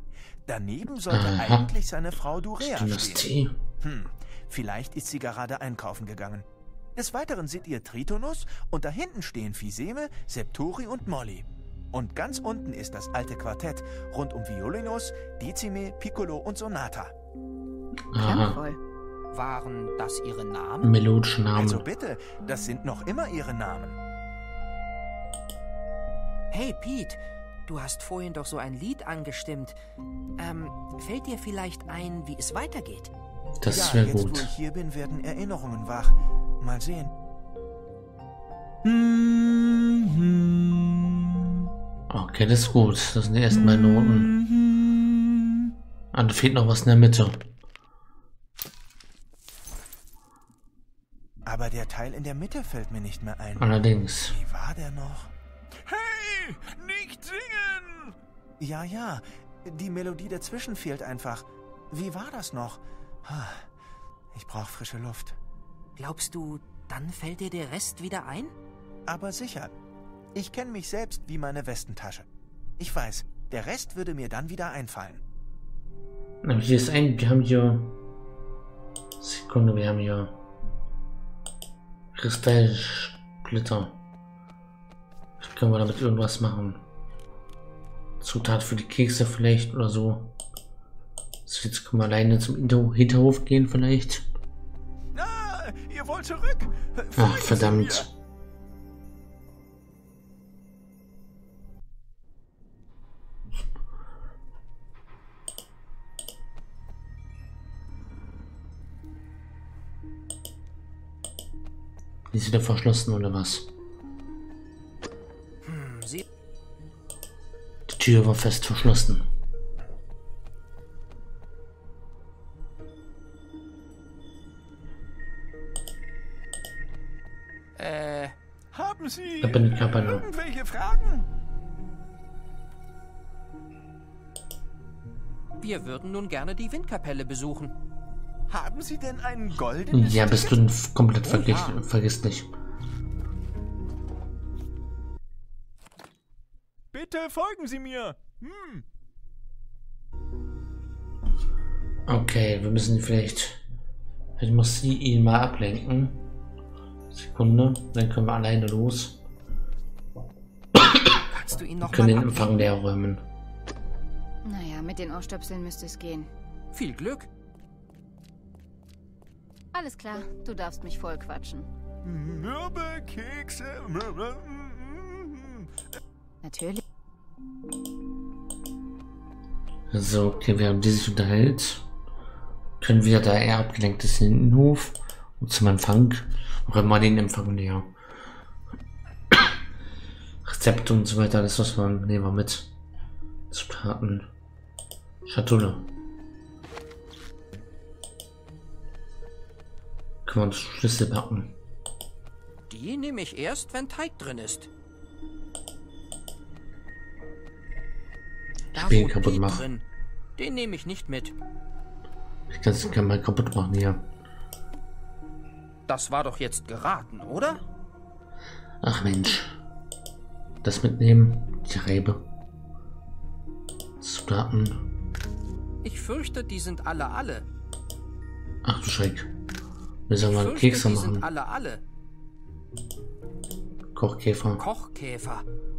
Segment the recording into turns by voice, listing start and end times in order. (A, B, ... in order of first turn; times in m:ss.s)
0:00.5-0:03.3 A
0:01.1-0:01.7 B
0:02.6-0:03.6 B
0:03.8-0:17.1 A
0:18.1-0:18.6 B
0:18.2-0:18.8 C
0:19.3-0:21.0 D
0:20.8-0:21.8 B
0:21.5-0:24.0 A
0:26.5-0:29.8 D
0:30.4-0:33.1 D
0:33.6-0:34.5 B
0:33.7-0:37.1 A
0:38.8-0:41.6 A
0:42.1-0:44.3 B
0:43.5-0:45.7 A
0:46.1-0:47.4 B
0:51.5-0:53.7 A
0:53.6-0:54.4 B
0:54.3-1:03.7 A
1:04.3-1:05.4 A
1:06.0-1:08.5 D
1:09.1-1:09.7 A
1:10.4-1:12.3 A
1:12.8-1:15.2 A
1:16.4-1:18.0 B
1:19.2-1:20.4 B
1:22.1-1:24.0 B
1:25.4-1:26.8 B
1:28.2-1:30.4 B
1:31.5-1:34.3 B
1:35.1-1:38.1 A
1:37.2-1:38.1 B
1:52.3-1:53.7 B
1:55.6-1:56.2 D
1:57.9-1:59.3 B
2:07.8-2:08.4 D
2:08.7-2:11.3 A
2:09.4-2:10.3 B
2:15.6-2:17.7 D
2:18.5-2:20.6 A
2:19.9-2:22.5 B
2:21.2-2:21.8 D
2:26.9-2:28.8 A
2:32.1-2:33.6 B
2:34.4-2:36.2 B
2:37.1-2:39.2 B
2:41.2-2:42.7 D
2:41.8-2:43.2 B
2:44.4-2:46.3 C
2:46.7-2:47.3 D
2:49.7-2:51.7 C
2:52.0-2:55.8 A
2:56.4-2:56.8 C
2:59.9-3:01.8 B
3:02.8-3:07.9 B
3:09.3-3:09.6 B
3:10.4-3:12.7 B
3:13.5-3:14.3 B
3:15.3-3:15.9 B
3:20.3-3:21.6 B
3:22.7-3:24.7 D
3:28.7-3:29.8 D
3:28.8-3:29.7 B
3:30.4-3:31.4 D
3:32.5-3:34.0 B
3:35.9-3:37.6 D
3:38.8-3:39.6 B
3:40.6-3:42.2 B
3:44.0-3:44.8 B
3:45.8-3:47.5 D
3:48.6-3:49.3 B
3:50.1-3:51.3 B
3:50.3-3:51.8 D
3:54.0-3:54.6 B
3:54.6-3:55.5 D